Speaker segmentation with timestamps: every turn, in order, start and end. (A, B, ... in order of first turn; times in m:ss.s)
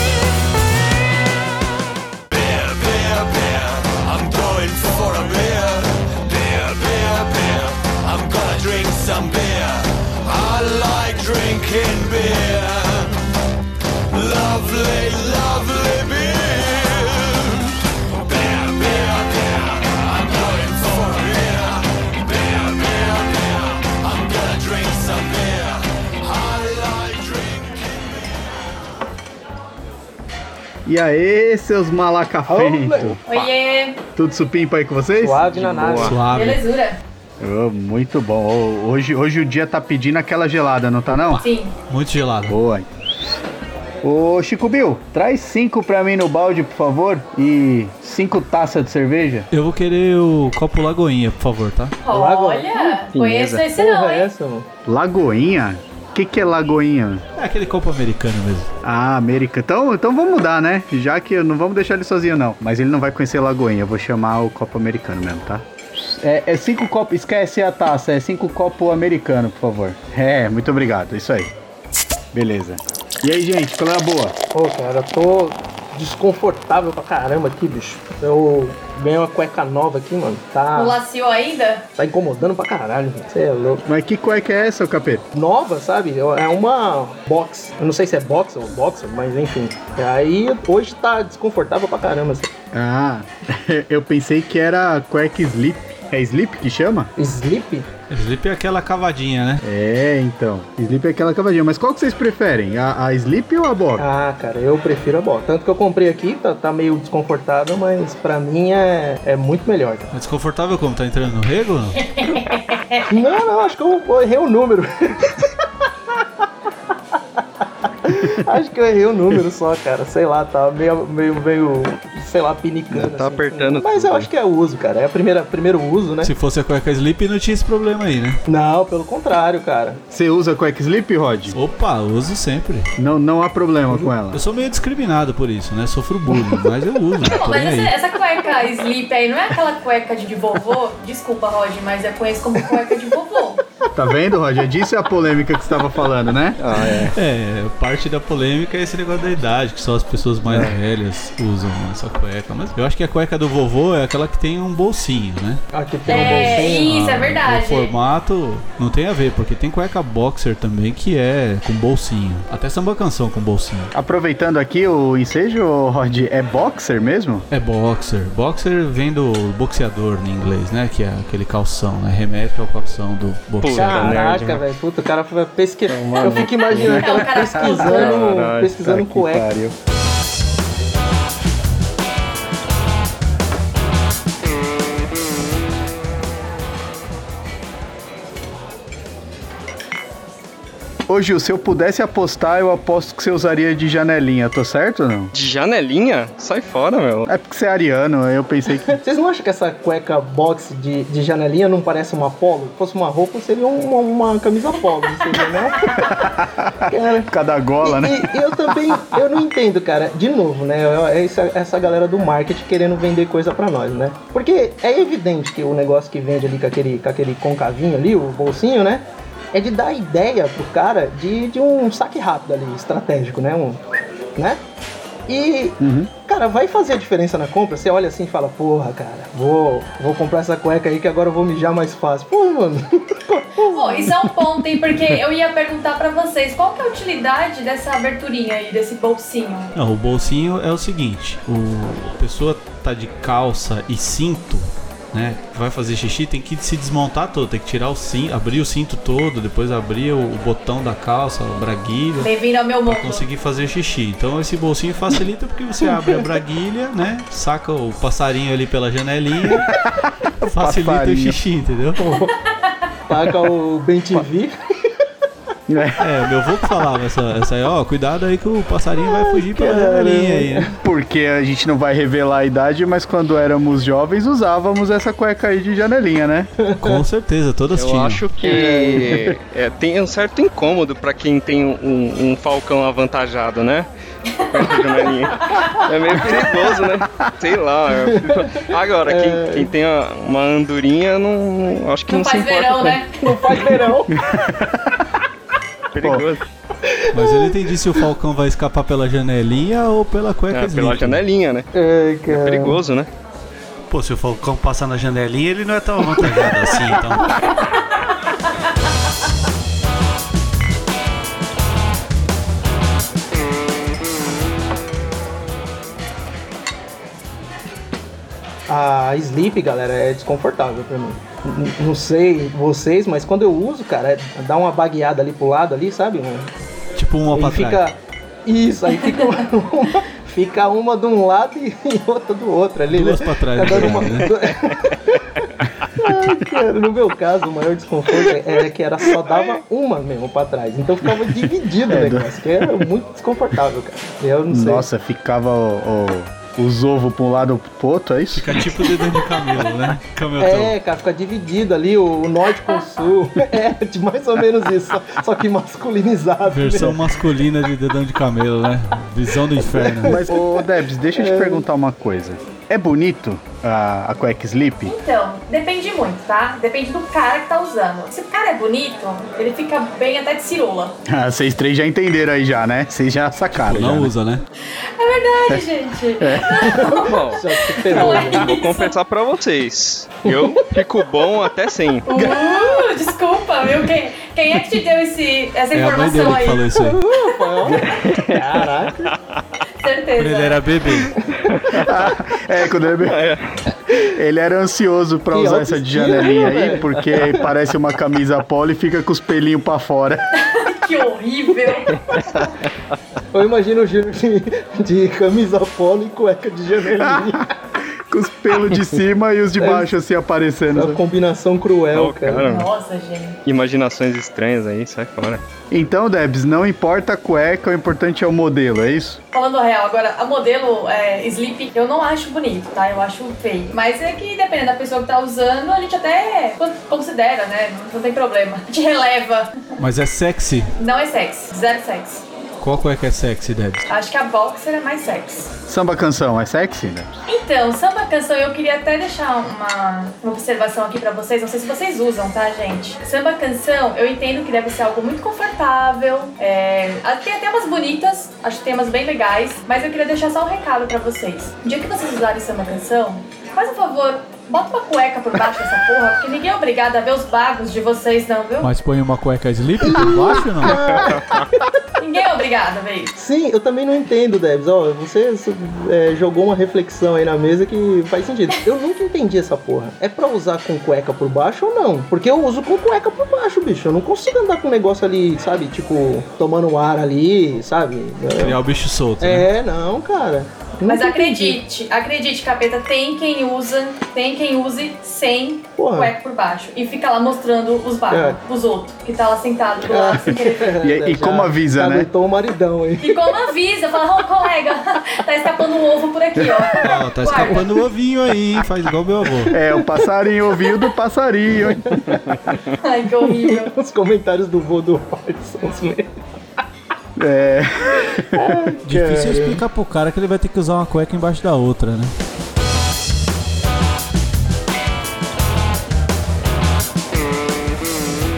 0:02.4-0:13.2 A
0:14.1-0:17.6 A
0:18.3-0:28.3 A
0:30.8-0:33.4 B
0:32.5-0:33.2 C
0:33.3-0:34.0 D
0:34.2-0:36.2 B
0:35.2-0:36.2 C
0:36.0-0:36.6 E
0:36.2-0:37.0 D
0:37.4-0:41.4 B
0:41.1-0:42.6 E
0:41.4-0:41.7 D
0:42.5-0:42.9 B
0:44.0-0:49.5 B
0:49.5-0:52.0 E
0:52.0-0:54.3 D
0:52.1-0:53.0 C
0:53.1-0:53.7 F
0:53.7-0:54.7 C
0:54.8-0:57.2 B
0:57.4-0:58.7 E
0:58.8-1:11.5 B
1:12.3-1:14.3 B
1:14.5-1:21.0 C
1:20.7-1:21.8 D
1:22.0-1:23.8 C
1:23.8-1:25.2 B
1:25.3-1:32.5 C
1:32.7-1:37.1 B
1:37.2-1:37.9 C
1:38.1-1:39.6 E
1:39.6-1:44.0 B
1:44.0-1:50.1 C
1:50.1-1:52.0 E
1:52.1-1:53.0 D
1:53.1-1:55.5 C
1:58.0-2:06.3 C
2:02.9-2:04.3 F
2:06.2-2:08.4 E
2:08.5-2:10.0 C
2:10.1-2:11.6 B
2:11.5-2:12.9 E
2:13.0-2:14.4 B
2:14.3-2:17.9 E
2:17.2-2:23.6 D
2:23.9-2:26.6 B
2:26.6-2:27.1 F
2:26.9-2:43.9 E
2:30.4-2:30.8 F
2:35.7-2:37.0 C
2:36.1-2:37.9 D
2:43.9-2:47.4 B
2:47.5-2:54.2 E
2:53.6-2:54.6 F
2:53.7-2:59.5 C
2:55.9-2:57.0 F
2:56.7-2:57.8 B
2:57.0-2:58.1 D
2:57.8-2:58.8 F
2:58.8-2:59.7 B
3:11.1-3:15.3 B
3:15.3-3:17.3 F
3:17.3-3:19.0 B
3:18.9-3:26.2 C
3:25.9-3:26.7 B
3:26.9-3:27.3 C
3:27.3-3:29.2 B
3:27.8-3:43.8 C
3:44.4-3:44.6 C
3:45.3-3:54.1 C
3:45.8-3:46.1 B
3:53.7-3:59.7 D
3:59.7-4:12.3 E
4:12.2-4:13.2 D
4:12.8-4:19.7 E
4:19.5-4:19.8 B
4:20.4-4:22.0 E
4:20.5-4:21.4 B
4:22.0-4:22.3 C
4:23.1-4:24.5 C
4:25.7-4:26.2 B
4:26.0-4:30.7 E
4:29.0-4:30.7 C
4:30.8-4:36.5 B
4:36.6-4:37.0 C
4:36.8-4:38.4 E
4:37.7-4:43.9 F
4:38.4-4:39.3 C
4:44.3-4:44.9 D
4:44.5-4:53.0 F
4:46.2-4:47.2 B
4:48.0-4:49.7 C
4:52.1-4:53.1 D
4:53.2-4:54.2 C
4:54.1-4:55.1 B
4:55.9-4:56.5 F
4:56.8-4:57.6 C
4:57.1-5:01.2 E
5:00.5-5:01.7 F
5:01.7-5:02.8 C
5:02.2-5:03.1 F
5:03.9-5:07.7 E
5:06.4-5:06.7 C
5:18.7-5:26.5 C
5:27.0-5:27.9 E
5:27.3-5:35.4 C
5:32.9-5:34.3 E
5:36.0-5:44.8 C
5:41.9-5:42.4 B
5:44.5-5:48.6 B
5:48.3-5:50.8 E
5:50.4-5:57.0 C
5:56.4-6:00.2 E
5:59.6-6:01.6 C
6:00.0-6:04.9 B
6:04.8-6:11.0 D
6:11.1-6:14.1 B
6:13.5-6:14.4 E
6:15.0-6:18.9 D
6:16.2-6:17.0 B
6:16.6-6:18.6 C
6:17.0-6:22.1 F
6:20.2-6:20.7 C
6:22.1-6:27.8 D
6:25.7-6:27.0 E
6:26.8-6:29.1 C
6:27.8-6:29.4 F
6:29.8-6:30.6 D
6:30.2-6:31.2 E
6:31.4-6:31.9 F
6:31.7-6:33.2 B
6:33.0-6:33.6 F
6:34.0-6:40.2 B
6:35.3-6:37.5 C
6:40.3-6:42.4 D
6:41.9-6:42.5 F
6:43.3-6:47.4 C
6:47.0-6:51.0 B
6:49.6-6:49.9 C
6:50.7-6:52.6 C
6:51.9-6:52.7 F
6:52.4-6:53.4 D
6:53.4-6:55.4 F
6:55.7-6:59.2 B
6:59.3-7:09.6 D
7:09.8-7:10.7 E
7:10.8-7:12.2 D
7:12.6-7:13.8 E
7:13.9-7:15.5 D
7:15.7-7:17.1 B
7:17.3-7:38.7 D
7:38.6-7:41.0 E
7:39.8-7:41.6 C
7:40.8-7:41.4 F
7:42.0-7:43.2 D
7:43.2-7:58.6 C
7:58.3-7:59.5 E
7:59.2-8:01.6 C
8:00.8-8:10.8 D
8:05.8-8:06.1 C
8:08.1-8:08.4 C
8:09.8-8:13.3 C
8:10.8-8:12.1 B
8:13.0-8:17.7 D
8:16.4-8:16.7 B
8:16.8-8:19.5 E
8:19.5-8:22.2 B
8:19.5-8:19.9 C
8:21.6-8:22.5 C
8:22.8-8:23.7 D
8:23.2-8:26.1 C
8:27.2-8:28.7 B
8:28.3-8:29.6 C
8:28.8-8:32.1 E